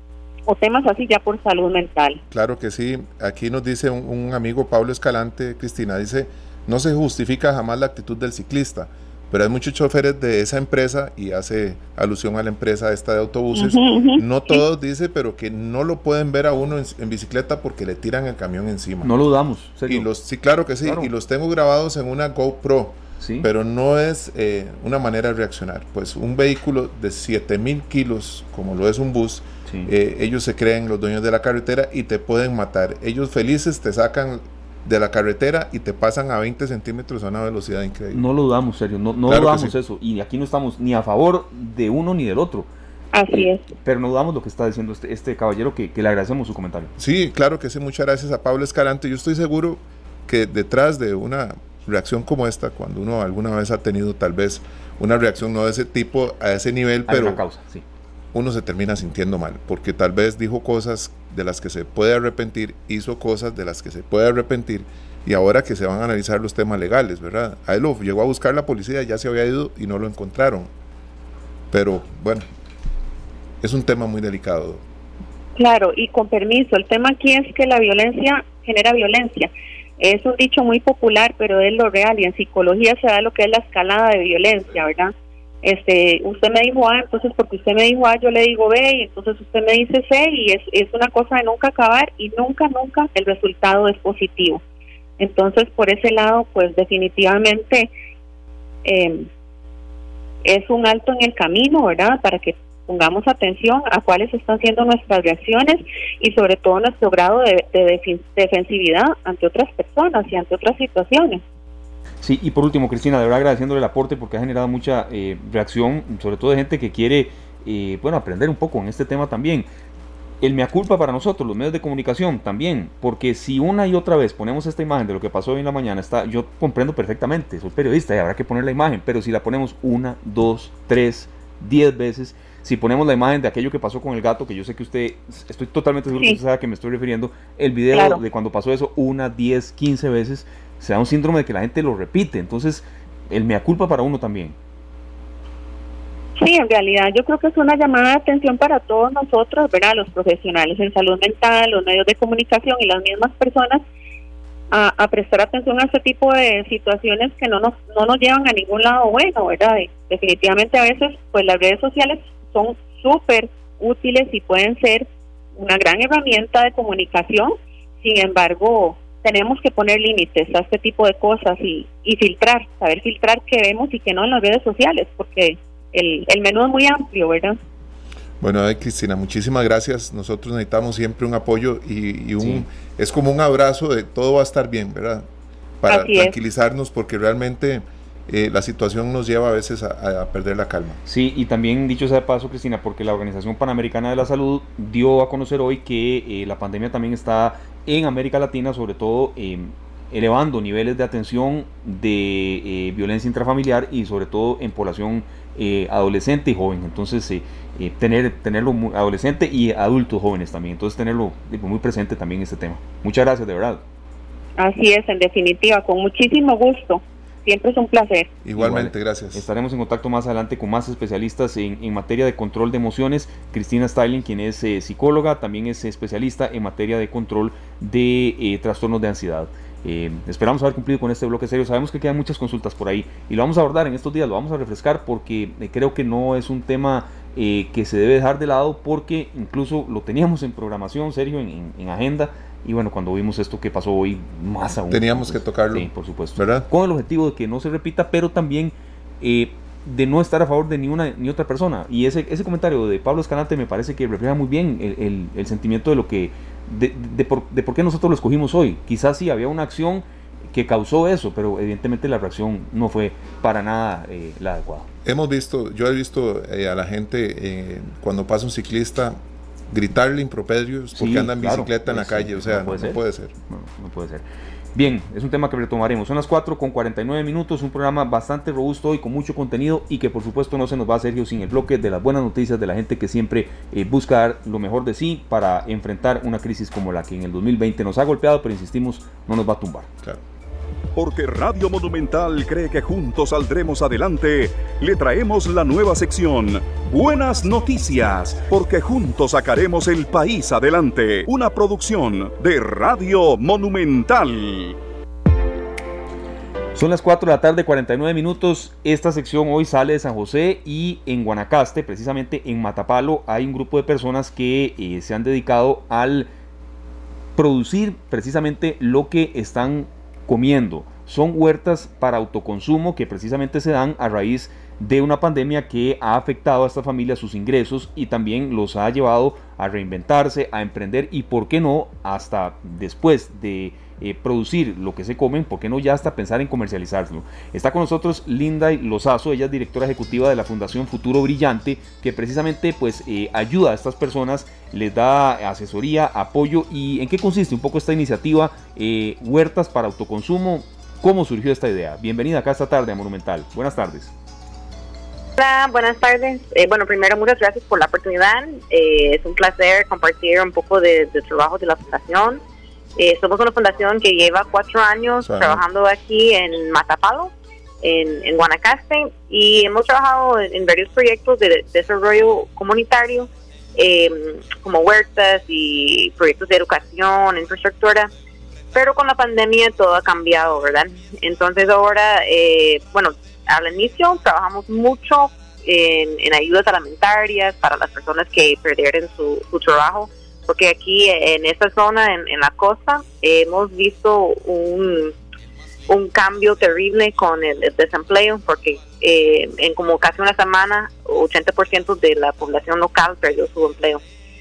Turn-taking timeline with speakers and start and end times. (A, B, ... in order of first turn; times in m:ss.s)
0:00.5-0:02.2 A
0:02.3-0:19.1 B
0:13.5-0:14.6 A
0:19.0-0:20.1 C
0:19.8-0:38.2 B
0:20.8-0:21.1 C
0:23.2-0:23.5 C
0:38.1-0:42.7 C
0:39.2-0:39.7 B
0:43.1-0:43.7 A
0:43.3-0:46.9 C
0:47.0-0:57.4 B
0:57.1-0:57.8 C
0:58.3-1:10.7 B
1:11.7-1:12.4 B
1:13.6-1:14.8 B
1:15.6-1:34.6 A
1:35.2-1:37.9 A
1:38.8-1:39.3 A
1:40.4-1:51.4 A
1:52.2-1:59.7 C
2:00.4-2:24.6 C
2:17.9-2:18.2 A
2:26.4-2:33.8 A
2:34.7-2:57.6 A
2:58.4-3:05.3 B
3:02.4-3:02.6 C
3:05.8-3:11.0 B
3:05.9-3:06.4 A
3:11.0-3:33.8 C
3:34.6-3:38.3 A
3:38.4-3:39.4 B
3:38.5-4:24.9 C
4:04.9-4:06.7 B
4:25.0-4:29.2 B
4:29.7-4:33.3 B
4:30.9-4:49.9 C
4:50.9-5:04.8 D
5:06.7-5:16.3 C
5:17.4-5:54.1 C
5:55.4-6:02.4 E
6:03.0-6:07.3 E
6:05.2-6:05.6 B
6:07.8-6:18.1 E
6:18.7-6:35.1 E
6:35.9-6:44.0 E